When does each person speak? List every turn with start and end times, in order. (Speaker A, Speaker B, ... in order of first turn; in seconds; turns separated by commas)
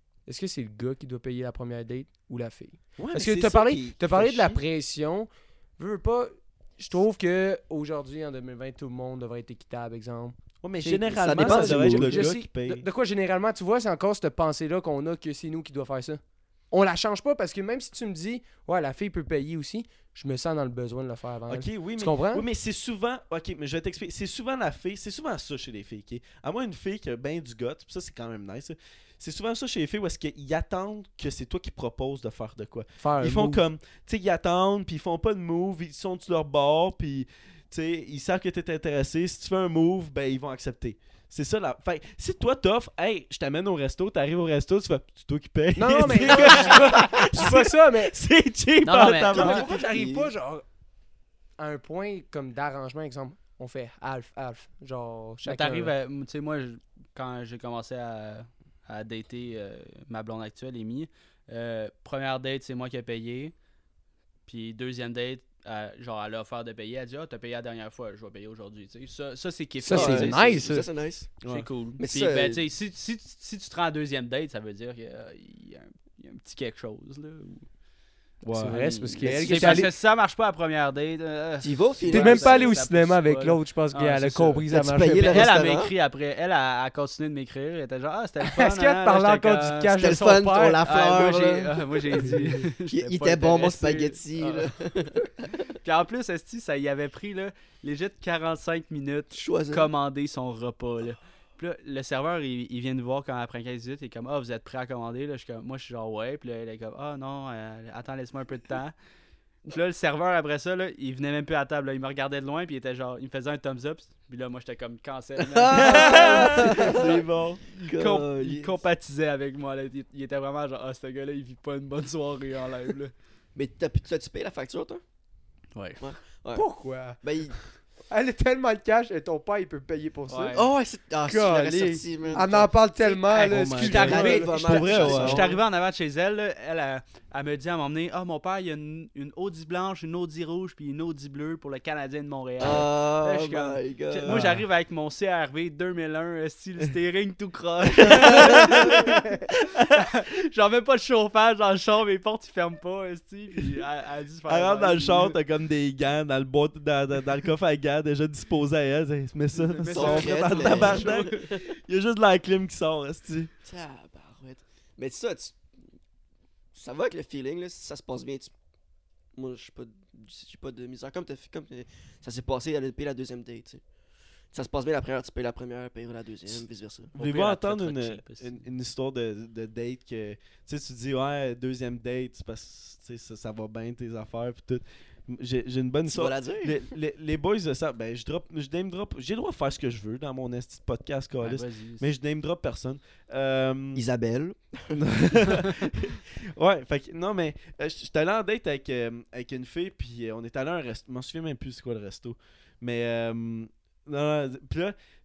Speaker A: 0.2-22.4, Speaker B: 3.0-4.6, Speaker B: 10.6-12.8, Speaker C: 11.1-12.3, Speaker B: 21.5-49.6, Speaker A: 33.0-33.6, Speaker A: 45.8-48.1, Speaker D: 48.8-49.6, Speaker A: 49.3-50.6, Speaker C: 49.3-50.3, Speaker A: 51.6-55.9, Speaker D: 55.4-63.5, Speaker D: 64.5-70.7, Speaker A: 69.8-70.8, Speaker C: 69.9-71.3, Speaker B: 71.4-71.7, Speaker D: 71.5-77.7, Speaker C: 72.0-72.6, Speaker B: 78.4-79.9, Speaker A: 78.5-79.9, Speaker D: 78.6-90.1, Speaker C: 81.6-82.7, Speaker A: 82.1-85.5, Speaker C: 84.7-85.9, Speaker A: 88.4-90.8, Speaker C: 90.0-95.7, Speaker D: 90.8-94.7, Speaker D: 95.7-108.9, Speaker C: 99.3-99.9, Speaker D: 109.7-117.2, Speaker C: 115.5-117.2, Speaker B: 115.7-117.6, Speaker D: 117.7-123.1, Speaker C: 117.8-118.8, Speaker C: 123.5-125.0, Speaker D: 125.7-126.0, Speaker C: 126.0-127.6, Speaker A: 126.5-127.2, Speaker A: 128.1-130.6, Speaker D: 130.3-130.7, Speaker C: 130.5-132.8, Speaker A: 131.2-134.8, Speaker D: 133.0-155.4, Speaker B: 133.5-135.6, Speaker C: 133.8-135.6, Speaker C: 142.6-144.4, Speaker B: 144.2-144.6, Speaker C: 148.0-149.0, Speaker B: 148.1-149.0, Speaker B: 154.5-163.5, Speaker D: 159.6-161.5, Speaker C: 159.9-161.6, Speaker C: 163.6-165.6, Speaker C: 166.7-168.5, Speaker C: 169.3-173.8, Speaker C: 174.5-177.1, Speaker B: 177.1-194.0, Speaker D: 177.2-178.6, Speaker C: 186.1-186.8, Speaker D: 191.4-192.1, Speaker C: 193.9-195.4, Speaker B: 194.9-204.9